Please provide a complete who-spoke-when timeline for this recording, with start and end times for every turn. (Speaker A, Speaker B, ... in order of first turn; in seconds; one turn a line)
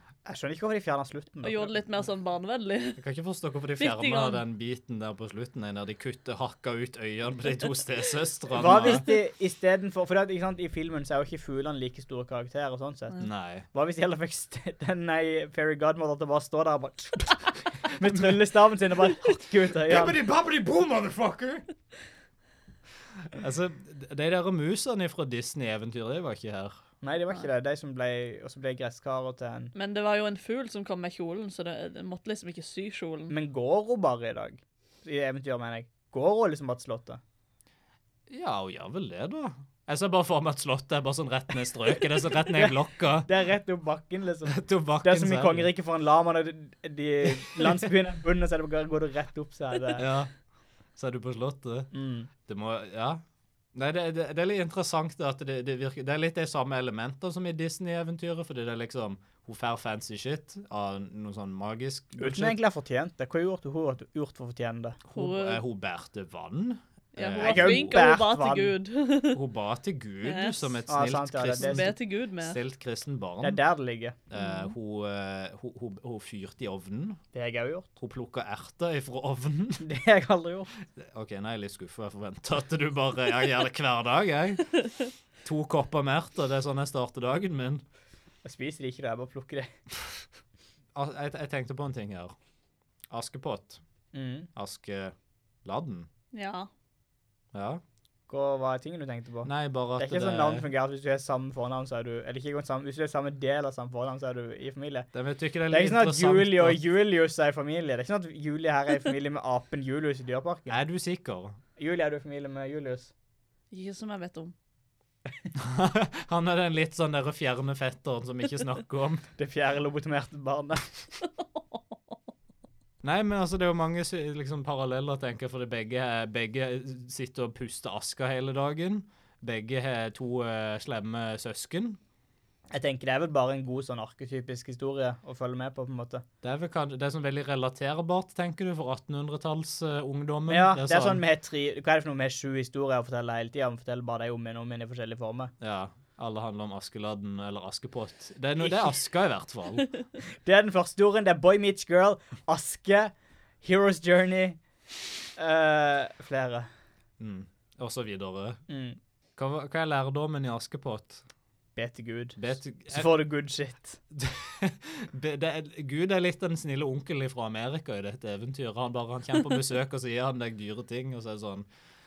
Speaker A: 0.3-1.8
Speaker B: 1.4-3.0
Speaker C: 3.0-9.1
Speaker B: 3.8-4.4
Speaker A: 8.5-13.2
Speaker C: 13.2-13.7
Speaker A: 13.7-20.2
Speaker C: 19.9-21.6
Speaker C: 23.2-26.8
Speaker A: 27.0-29.7
Speaker B: 29.8-33.3
Speaker A: 33.3-37.2
Speaker C: 38.3-43.3
Speaker A: 42.5-50.0
Speaker C: 44.5-45.7
Speaker C: 50.0-50.3
Speaker C: 51.0-51.9
Speaker A: 51.9-52.3
Speaker C: 52.4-53.2
Speaker C: 53.8-62.6
Speaker A: 62.2-65.0
Speaker C: 65.1-68.1
Speaker B: 65.2-65.6
Speaker B: 67.2-69.4
Speaker A: 67.4-68.7
Speaker C: 69.3-73.6
Speaker B: 70.2-70.8
Speaker A: 70.9-71.9
Speaker B: 71.5-72.6
Speaker A: 73.4-74.2
Speaker C: 74.3-77.2
Speaker B: 74.4-74.7
Speaker A: 77.3-77.9
Speaker C: 78.0-79.9
Speaker A: 79.8-80.7
Speaker C: 80.9-84.7
Speaker C: 85.4-87.8
Speaker A: 88.4-89.7
Speaker C: 91.0-92.3
Speaker C: 93.1-93.8
Speaker A: 94.1-94.5
Speaker C: 94.5-96.1
Speaker B: 96.3-96.7
Speaker C: 97.5-97.8
Speaker A: 98.3-105.1
Speaker C: 99.5-100.7
Speaker C: 105.1-106.8
Speaker A: 105.7-110.8
Speaker C: 110.7-111.6
Speaker A: 111.8-113.1
Speaker B: 113.7-114.5
Speaker C: 115.5-119.2
Speaker A: 119.4-120.9
Speaker C: 123.0-132.0
Speaker A: 132.7-136.2
Speaker C: 136.4-141.2
Speaker A: 140.5-145.5
Speaker C: 145.6-149.9
Speaker A: 150.4-154.6
Speaker A: 155.4-156.7
Speaker C: 157.2-158.6
Speaker A: 158.7-159.0
Speaker C: 159.4-161.2
Speaker A: 161.8-164.0
Speaker C: 162.4-163.1
Speaker C: 164.1-171.7